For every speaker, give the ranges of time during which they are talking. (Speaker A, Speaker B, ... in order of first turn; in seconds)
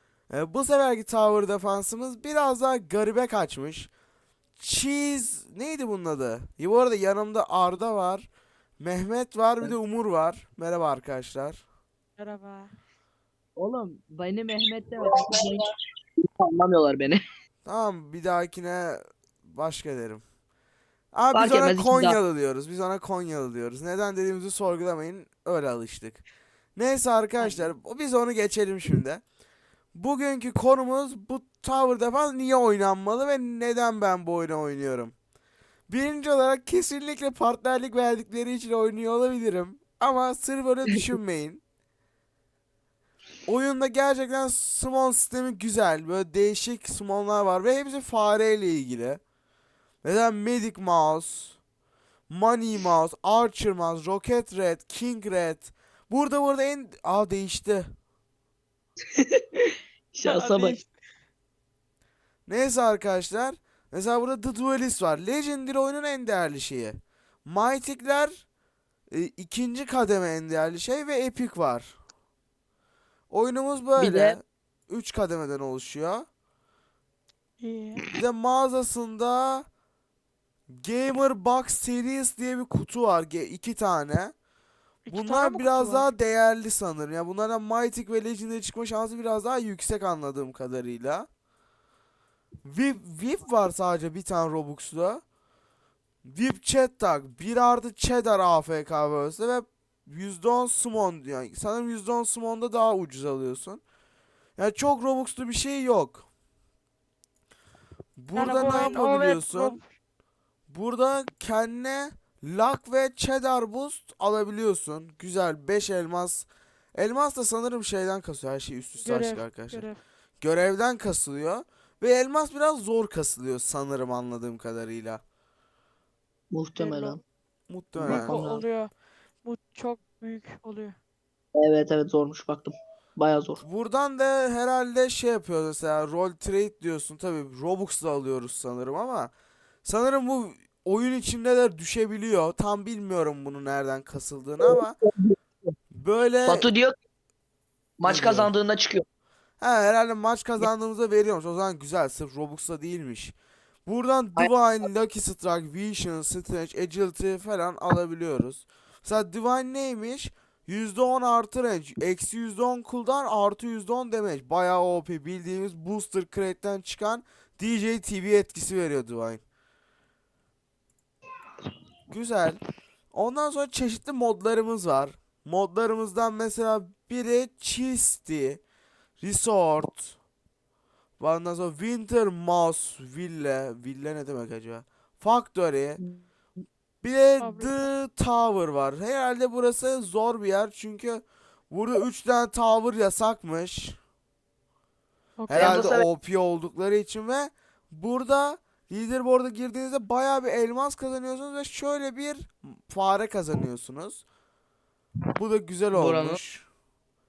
Speaker A: 0.3-3.9, 4.6-8.3, 8.8-11.6, 17.6-20.2, 21.1-26.2, 26.8-29.2, 29.9-35.1, 35.9-41.6, 43.5-49.2, 50.0-51.6, 52.3-57.9, 62.5-68.4, 69.1-71.9, 73.3-76.2, 78.1-79.7, 80.7-84.3, 85.1-91.3, 92.6-95.2, 96.2-103.8, 104.6-106.2, 108.2-109.8, 110.7-119.8, 120.4-125.2, 127.7-128.5, 133.6-139.3, 139.8-144.9, 145.9-146.7, 148.0-148.5, 149.6-153.3, 153.8-169.4, 172.1-172.6, 173.1-178.6, 179.2-180.2, 181.2-186.0, 187.0-194.0, 195.5-204.2, 205.4-206.7
Speaker B: 12.2-12.7, 60.2-60.9, 77.6-78.0, 85.0-86.1, 108.3-109.9, 119.0-120.0, 126.8-127.2, 128.0-128.9, 129.4-130.9, 187.4-187.9, 195.4-195.8
Speaker C: 13.6-15.6, 16.4-17.2, 21.3-22.2, 60.1-60.8, 74.0-74.4, 126.5-127.2, 128.0-128.6, 131.5-133.6, 144.6-145.3, 146.4-146.9, 148.0-149.0, 195.5-196.1, 205.9-206.4